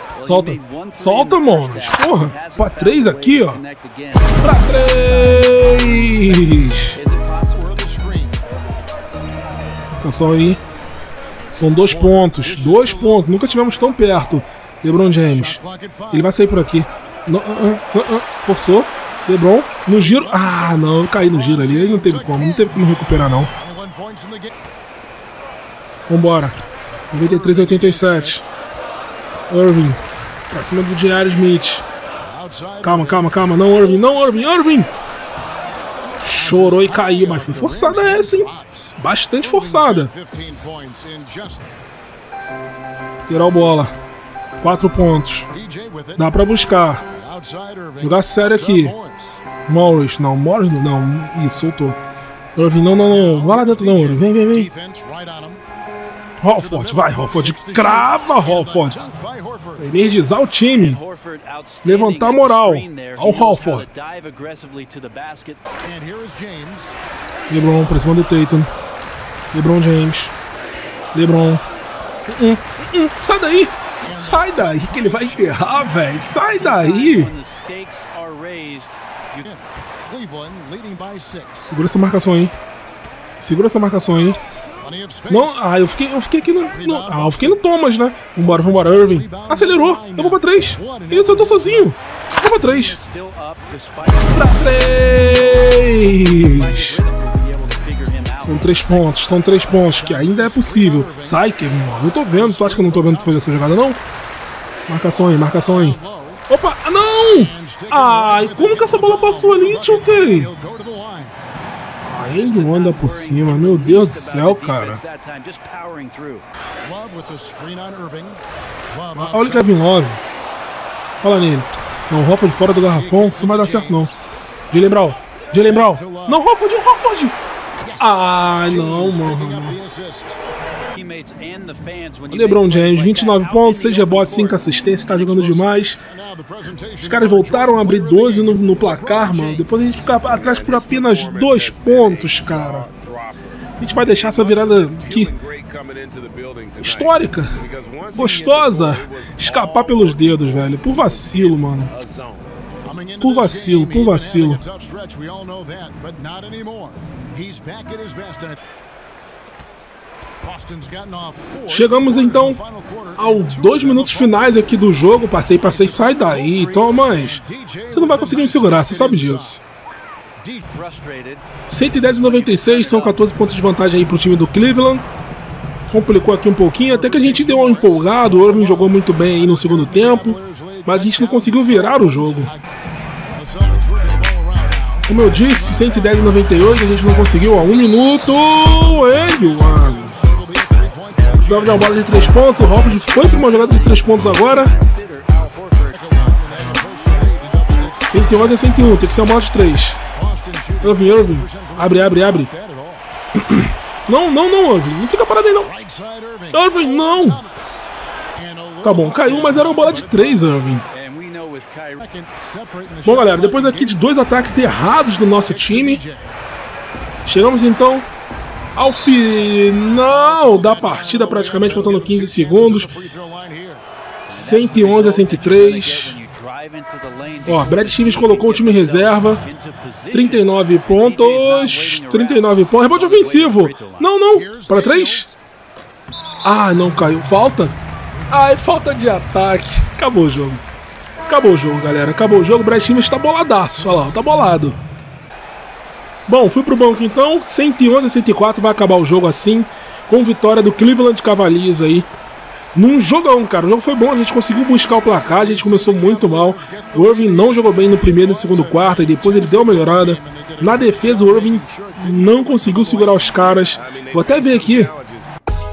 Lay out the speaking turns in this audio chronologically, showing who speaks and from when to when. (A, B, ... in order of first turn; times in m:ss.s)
0:00.2-0:04.3 A
0:00.2-0:03.6 B
0:04.4-0:07.0 B
0:04.9-0:07.7 A
0:10.0-0:10.6 B
0:11.5-0:23.5 B
0:26.1-0:26.6 B
0:27.1-0:28.4 B
0:29.5-0:30.0 B
0:30.5-0:31.8 B
0:32.8-0:34.9 B
0:36.2-0:40.1 B
0:40.4-0:41.4 C
0:43.3-0:43.9 B
0:44.6-0:45.5 B
0:46.2-0:47.0 B
0:48.0-0:49.0 B
0:49.7-0:52.0 B
0:52.6-0:54.7 B
0:55.0-0:55.3 C
0:56.4-0:59.0 B
0:59.1-0:59.4 C
0:59.8-1:01.0 B
1:00.8-1:05.6 A
1:01.8-1:03.9 B
1:05.9-1:06.8 C
1:07.5-1:08.7 B
1:09.5-1:10.3 B
1:11.1-1:11.6 B
1:12.3-1:17.3 B
1:16.6-1:19.4 A
1:20.3-1:21.4 C
1:21.7-1:22.5 B
1:23.4-1:24.4 B
1:25.3-1:33.0 B
1:32.7-1:38.9 A
1:34.3-1:37.0 B
1:38.4-1:44.0 B
1:40.2-1:41.1 C
1:42.6-1:43.2 C
1:44.9-1:50.5 B
1:48.0-1:49.1 C
1:50.6-1:51.3 C
1:52.1-1:55.0 B
1:52.6-1:56.4 A
1:56.9-1:58.4 C
1:59.2-2:00.2 B
2:01.2-2:04.2 B
2:03.4-2:03.8 C
2:04.7-2:07.4 B
2:08.0-2:09.8 B
2:08.9-2:10.3 C
2:11.0-2:14.5 A
2:12.3-2:16.0 B
2:16.4-2:17.3 C
2:17.0-2:22.9 B
2:23.8-2:25.4 B
2:26.8-2:27.6 B
2:28.1-2:32.0 B
2:33.2-2:34.6 B
2:35.8-2:36.1 C
2:41.7-2:42.6 B
2:43.2-2:49.6 B
2:48.3-2:48.6 C
2:50.7-2:51.4 A
2:51.7-2:55.0 B
2:55.9-3:02.6 B
2:57.2-2:58.0 C
3:01.4-3:02.1 C
3:05.1-3:10.2 B
3:11.3-3:14.7 B
3:13.7-3:14.1 A
3:14.7-3:16.1 A
3:16.6-3:17.6 C
3:18.1-3:20.0 B
3:20.8-3:22.5 B
3:23.4-3:25.8 B
3:26.5-3:27.5 B
3:28.8-3:30.9 B
3:30.9-3:32.0 A
3:33.0-3:36.0 B
3:37.2-3:38.1 B
3:38.8-3:42.9 B
3:43.1-3:43.7 C
3:44.3-3:46.2 B
3:44.5-3:50.3 A
3:47.5-3:49.4 B
3:50.1-3:55.3 B
3:50.9-3:52.3 A
3:52.9-3:54.0 A
3:56.4-3:57.8 B
3:58.3-4:00.6 B
4:01.3-4:04.8 B
4:06.3-4:12.1 B
4:12.7-4:24.9 B